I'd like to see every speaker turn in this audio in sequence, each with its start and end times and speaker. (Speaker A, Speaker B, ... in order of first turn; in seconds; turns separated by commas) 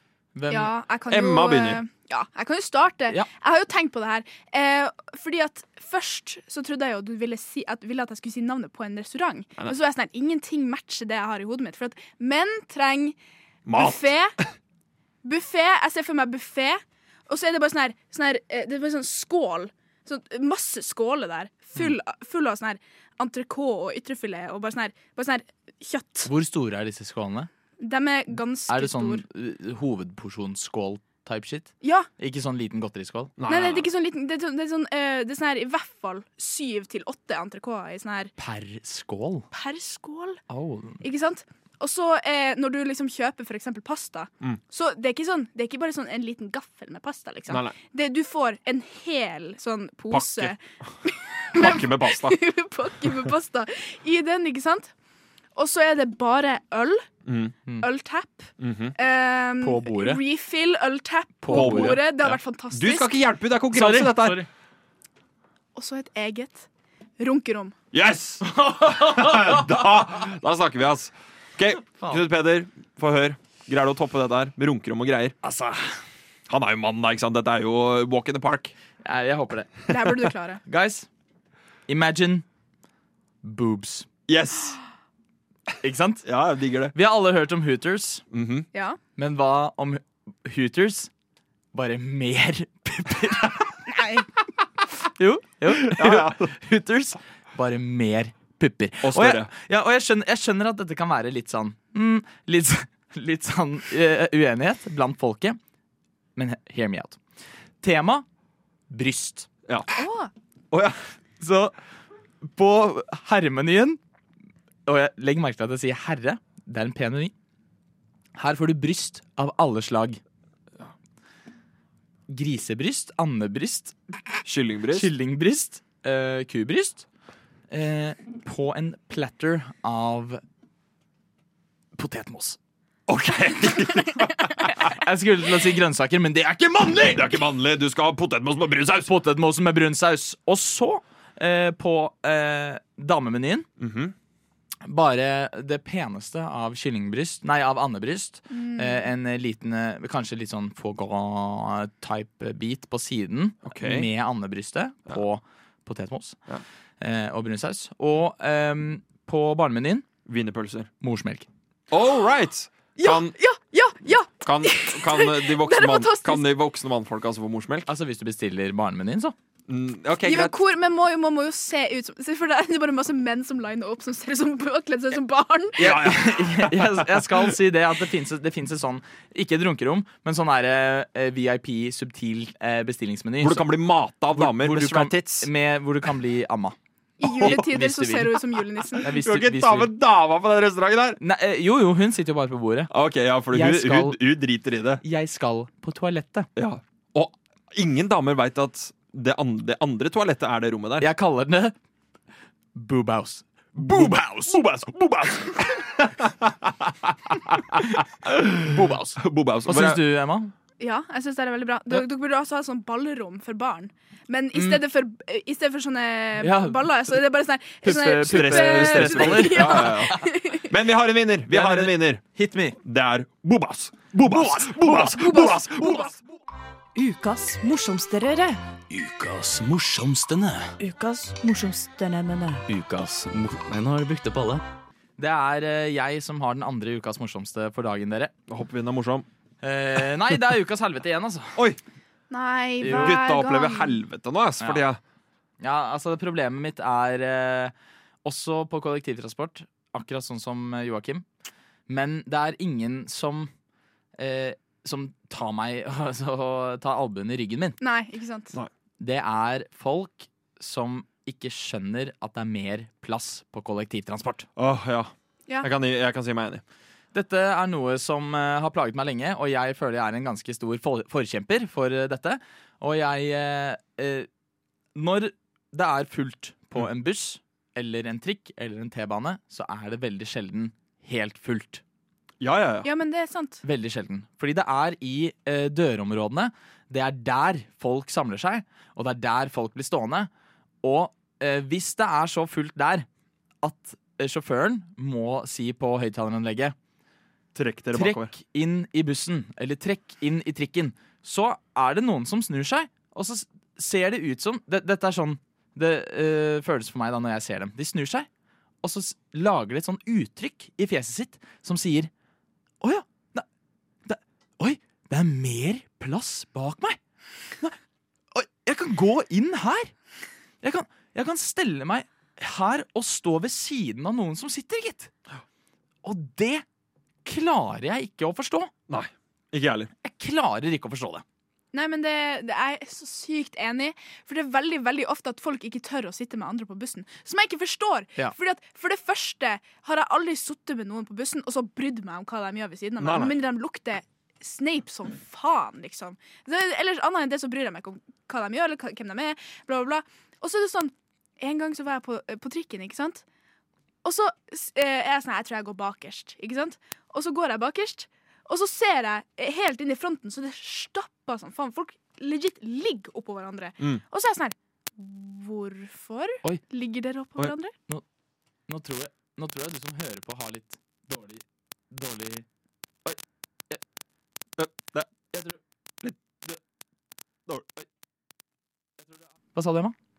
Speaker A: 0.3-0.7, Speaker B: 0.5-13.2, Speaker C: 1.1-1.8, Speaker C: 13.7-14.1, Speaker B: 13.7-14.3, Speaker B: 15.2-26.3, Speaker A: 26.2-27.5, Speaker B: 27.8-29.2, Speaker A: 28.7-33.3, Speaker B: 31.8-32.1, Speaker C: 33.4-33.9, Speaker B: 33.5-38.3, Speaker A: 38.4-39.5, Speaker B: 39.5-40.4, Speaker A: 40.5-41.0, Speaker B: 41.0-54.9, Speaker C: 47.5-47.8, Speaker C: 50.1-50.9, Speaker C: 51.5-52.4, Speaker B: 55.5-57.0, Speaker C: 57.2-57.5, Speaker B: 57.8-63.1, Speaker C: 58.6-58.9, Speaker A: 59.6-60.2, Speaker A: 61.4-62.0, Speaker C: 61.5-64.4, Speaker A: 63.7-64.5, Speaker B: 65.7-66.7, Speaker B: 67.2-67.7, Speaker C: 67.9-75.3, Speaker A: 68.4-69.7, Speaker A: 72.0-72.2, Speaker A: 75.4-76.0, Speaker C: 76.5-78.7, Speaker A: 79.0-79.9, Speaker B: 79.9-80.6, Speaker A: 80.7-81.1, Speaker A: 81.9-82.5, Speaker A: 83.4-84.1, Speaker C: 84.3-84.8, Speaker A: 85.8-86.2, Speaker C: 86.2-86.9, Speaker A: 86.9-88.2, Speaker C: 88.3-88.7, Speaker B: 88.7-89.0, Speaker A: 89.2-91.1, Speaker A: 91.7-94.3, Speaker A: 95.0-105.6, Speaker C: 95.7-96.5, Speaker C: 99.0-99.5, Speaker A: 106.3-107.2, Speaker A: 107.8-108.2, Speaker A: 108.9-109.5, Speaker B: 110.0-110.3, Speaker C: 110.7-111.0, Speaker A: 111.4-111.7, Speaker A: 112.4-114.0, Speaker A: 114.8-117.3, Speaker A: 118.3-120.2, Speaker A: 122.3-123.9, Speaker C: 124.4-125.1, Speaker A: 124.9-127.0, Speaker A: 127.7-130.4, Speaker A: 131.9-132.6, Speaker C: 133.1-134.9, Speaker A: 134.8-137.3, Speaker C: 137.0-139.1, Speaker A: 139.1-143.7, Speaker C: 143.8-144.1, Speaker A: 144.8-156.4, Speaker B: 148.5-149.1, Speaker C: 153.6-154.1, Speaker A: 157.0-160.1, Speaker C: 160.2-160.9, Speaker A: 161.0-161.5, Speaker C: 161.9-163.3, Speaker B: 163.0-166.5, Speaker C: 164.4-167.9, Speaker A: 167.9-169.3, Speaker C: 169.7-170.6, Speaker B: 170.2-175.9, Speaker C: 175.8-177.5, Speaker A: 175.8-183.7, Speaker C: 183.4-185.5, Speaker A: 184.3-188.4, Speaker B: 187.2-189.1, Speaker C: 187.4-187.6, Speaker A: 189.0-189.9, Speaker C: 189.1-191.2, Speaker A: 191.2-192.9, Speaker C: 192.9-195.0, Speaker A: 193.5-194.2, Speaker A: 195.0-196.5, Speaker C: 196.6-201.1, Speaker A: 201.0-201.7, Speaker A: 202.7-204.6, Speaker C: 203.8-210.0, Speaker A: 208.6-210.5, Speaker B: 210.8-220.7, Speaker A: 214.5-214.8, Speaker A: 216.4-217.1, Speaker A: 217.8-220.3, Speaker C: 218.2-222.2, Speaker A: 221.5-222.8, Speaker C: 222.8-226.2, Speaker A: 224.2-225.4, Speaker B: 225.3-225.9, Speaker D: 226.9-228.6, Speaker A: 228.9-230.7, Speaker D: 230.8-232.7, Speaker E: 232.7-234.6, Speaker A: 235.2-238.3, Speaker C: 238.5-239.3, Speaker A: 239.6-241.6, Speaker B: 242.3-244.0, Speaker A: 242.8-243.2, Speaker C: 242.9-245.0, Speaker A: 245.6-247.7, Speaker A: 248.2-251.2, Speaker A: 251.9-253.5, Speaker A: 254.2-257.8, Speaker B: 257.8-258.5, Speaker A: 259.0-264.5, Speaker C: 264.6-266.6, Speaker A: 267.1-274.3, Speaker A: 274.9-281.8, Speaker C: 282.4-282.9, Speaker B: 282.8-283.6, Speaker A: 283.6-290.3, Speaker A: 290.8-293.1, Speaker A: 293.6-296.7, Speaker C: 297.5-298.3, Speaker A: 297.9-308.3, Speaker A: 308.8-312.1, Speaker A: 312.8-313.4, Speaker A: 314.0-317.0, Speaker A: 318.3-319.9, Speaker A: 320.6-325.1, Speaker A: 326.0-326.6, Speaker A: 327.2-328.7, Speaker C: 328.9-329.9, Speaker A: 330.0-331.2, Speaker B: 331.7-353.2, Speaker C: 343.0-343.4, Speaker B: 354.0-367.7, Speaker A: 368.7-372.4, Speaker C: 374.6-375.1, Speaker C: 376.0-376.6, Speaker C: 377.5-377.8, Speaker A: 379.5-379.9